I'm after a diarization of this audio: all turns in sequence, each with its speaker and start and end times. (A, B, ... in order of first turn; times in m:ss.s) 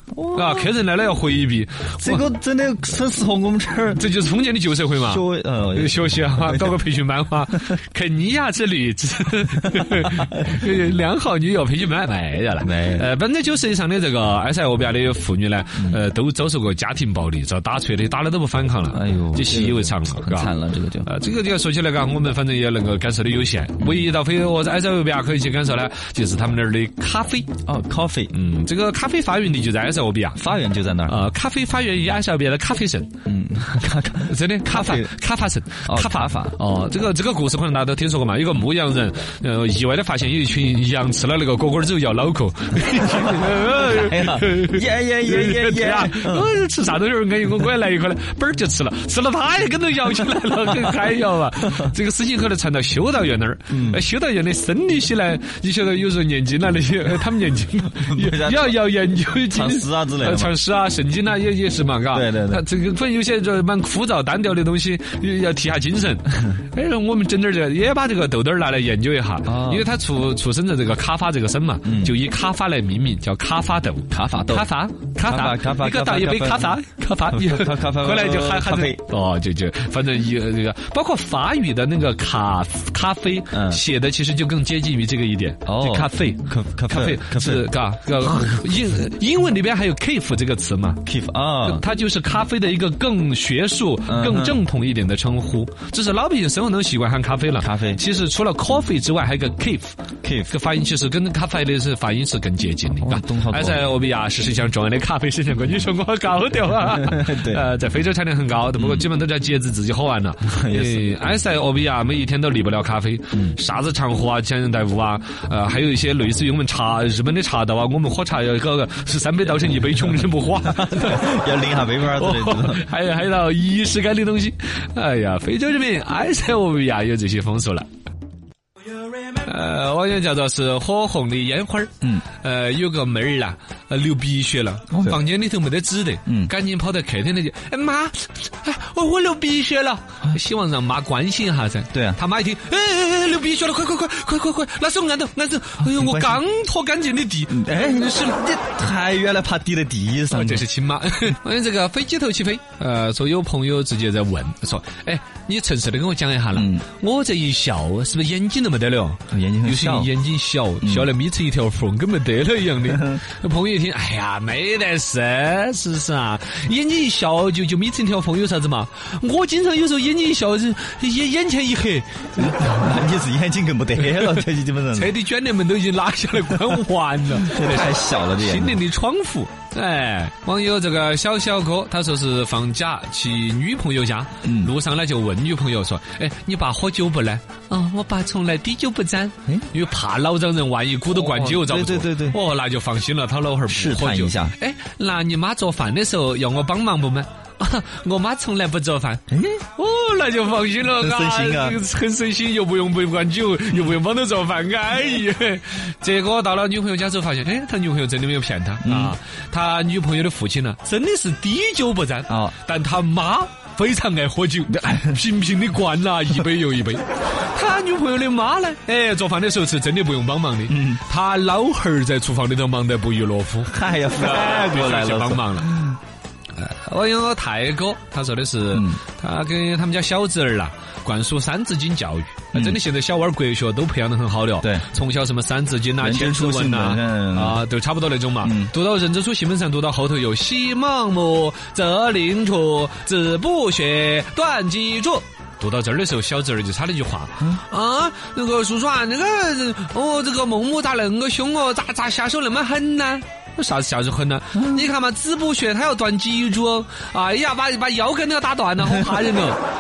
0:00.1-0:00.7 A
0:00.3-0:02.3 B
0:02.0-0:04.0 A
0:03.9-0:05.2 B
0:05.0-0:06.8 A
0:05.7-0:20.5 B
0:12.6-0:13.1 A
0:18.9-0:21.1 A
0:21.0-0:27.5 B
0:23.8-0:24.0 A
0:27.6-0:28.3 A
0:28.3-0:30.4 B
0:30.4-0:31.2 A
0:31.1-0:33.1 B
0:33.2-0:35.1 A
0:34.2-1:31.0 B
0:35.8-0:36.6 A
0:43.5-0:46.5 A
0:53.7-0:54.0 A
0:58.0-0:58.8 A
0:59.5-1:00.6 A
1:02.1-1:02.6 A
1:09.4-1:09.9 A
1:11.8-1:12.2 A
1:14.1-1:14.7 A
1:15.2-1:16.8 A
1:17.3-1:19.0 A
1:23.5-1:23.8 A
1:25.6-1:28.5 A
1:31.0-1:31.8 A
1:31.6-1:40.0 B
1:34.0-1:34.6 A
1:37.6-1:38.0 A
1:40.2-1:40.5 A
1:40.5-2:01.3 B
1:43.0-1:43.9 A
1:46.9-1:47.6 A
1:48.8-1:49.1 A
1:50.4-1:51.1 A
1:53.3-1:53.6 A
2:00.6-2:02.8 A
2:02.0-2:07.9 B
2:09.4-2:28.4 B
2:14.9-2:15.2 A
2:16.2-2:16.5 A
2:21.9-2:22.2 A
2:25.8-2:26.4 A
2:27.5-2:30.6 A
2:30.3-2:52.8 B
2:36.5-2:36.8 A
2:39.3-2:40.1 A
2:40.8-2:41.1 A
2:52.4-2:55.1 A
2:54.0-3:19.2 B
2:57.3-2:58.8 A
3:04.4-3:04.7 A
3:11.1-3:12.4 A
3:13.7-3:14.5 A
3:19.3-3:19.6 A
3:19.8-3:45.8 B
3:21.0-3:21.8 A
3:28.8-3:29.2 A
3:32.3-3:32.5 A
3:34.7-3:35.2 A
3:40.7-3:41.0 A
3:43.6-3:46.0 A
3:46.5-4:19.6 B
3:48.7-3:49.0 A
3:52.5-3:52.8 A
3:56.0-3:57.6 A
3:58.4-3:58.7 A
4:14.5-4:14.9 A